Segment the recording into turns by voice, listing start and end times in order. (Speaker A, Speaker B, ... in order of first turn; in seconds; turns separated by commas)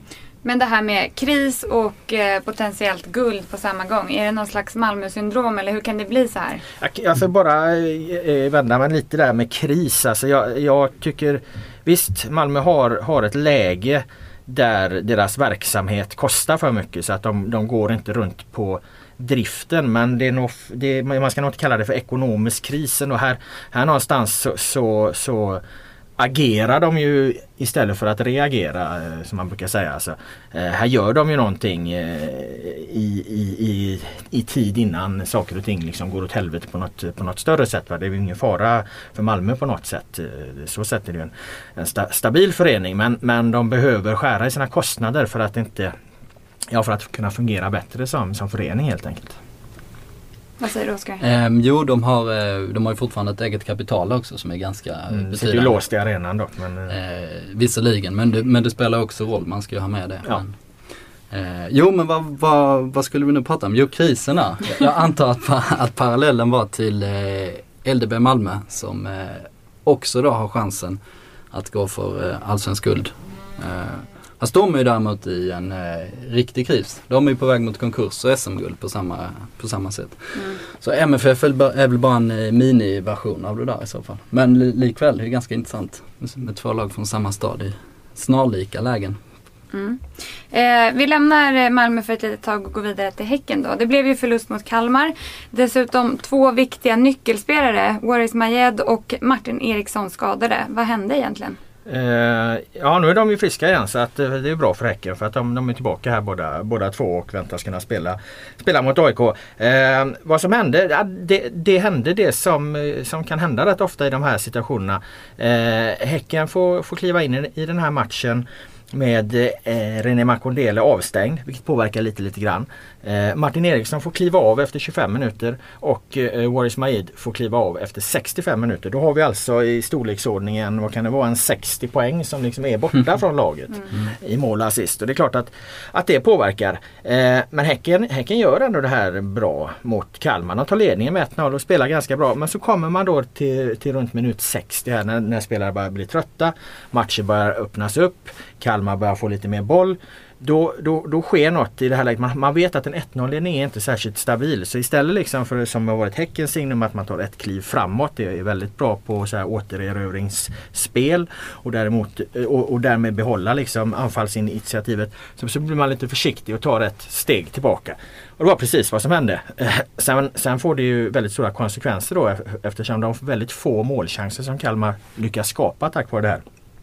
Speaker A: 0.4-6.6, Speaker B: 6.8-25.6, Speaker B: 26.2-45.9, Speaker B: 46.7-49.4, Speaker A: 50.6-51.2, Speaker C: 51.2-55.8, Speaker B: 55.1-57.0, Speaker C: 56.9-60.5, Speaker C: 61.3-71.0, Speaker C: 71.5-89.2, Speaker A: 89.7-101.6, Speaker B: 101.8-176.4